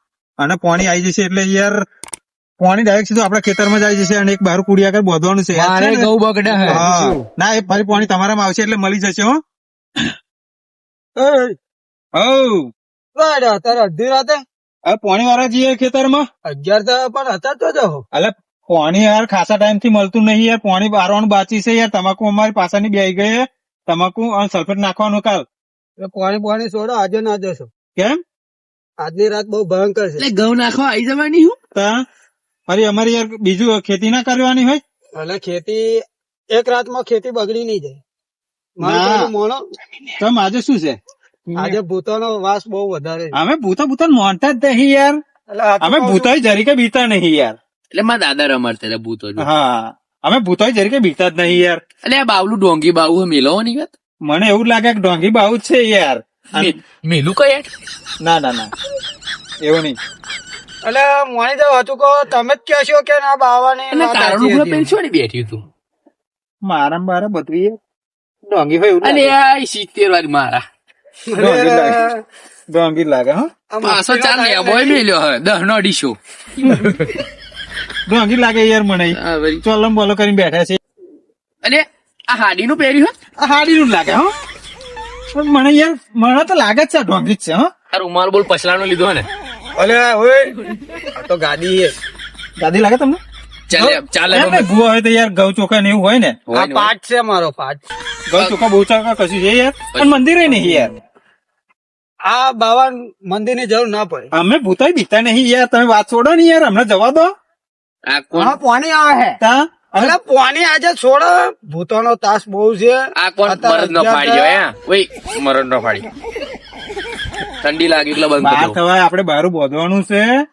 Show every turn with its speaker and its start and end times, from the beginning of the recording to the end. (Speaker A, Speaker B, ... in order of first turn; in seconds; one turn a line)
Speaker A: 0.4-1.8
Speaker A: 2.6-6.1
Speaker B: 5.5-6.8
Speaker C: 6.5-7.2
Speaker A: 6.7-9.4
Speaker C: 11.2-11.6
Speaker A: 12.1-12.7
Speaker C: 13.2-14.4
Speaker A: 14.8-16.2
Speaker C: 16.4-18.0
Speaker A: 18.1-25.4
Speaker C: 26.0-27.7
Speaker C: 29.0-30.2
Speaker B: 30.2-31.6
Speaker A: 31.7-32.0
Speaker A: 32.7-34.8
Speaker C: 35.1-36.0
Speaker C: 36.5-38.0
Speaker C: 38.8-39.6
Speaker A: 38.8-39.3
Speaker A: 40.2-41.0
Speaker C: 41.5-43.4
Speaker A: 43.3-45.2
Speaker C: 45.5-46.3
Speaker A: 45.8-47.6
Speaker B: 47.9-49.5
Speaker A: 49.4-51.8
Speaker B: 52.0-53.9
Speaker A: 54.2-56.7
Speaker B: 56.6-57.7
Speaker A: 58.2-58.7
Speaker A: 59.6-60.0
Speaker C: 60.8-64.9
Speaker B: 63.9-65.6
Speaker A: 66.6-67.8
Speaker A: 68.5-69.3
Speaker B: 69.0-70.6
Speaker C: 71.3-72.1
Speaker A: 71.4-72.1
Speaker A: 72.7-73.5
Speaker C: 73.7-75.0
Speaker B: 73.8-77.2
Speaker A: 78.1-80.8
Speaker B: 79.1-79.6
Speaker B: 81.6-83.1
Speaker A: 83.4-84.3
Speaker A: 85.3-87.7
Speaker B: 87.9-89.3
Speaker C: 89.7-91.9
Speaker A: 92.6-93.2
Speaker B: 93.7-94.7
Speaker A: 93.7-96.4
Speaker B: 96.5-96.9
Speaker C: 96.5-97.8
Speaker A: 98.3-100.9
Speaker B: 99.9-100.2
Speaker C: 102.3-104.3
Speaker A: 104.3-107.3
Speaker B: 108.1-108.6
Speaker C: 108.3-109.4
Speaker A: 109.4-110.2
Speaker C: 110.0-114.6
Speaker B: 113.2-116.1
Speaker B: 117.6-118.8
Speaker A: 118.4-120.2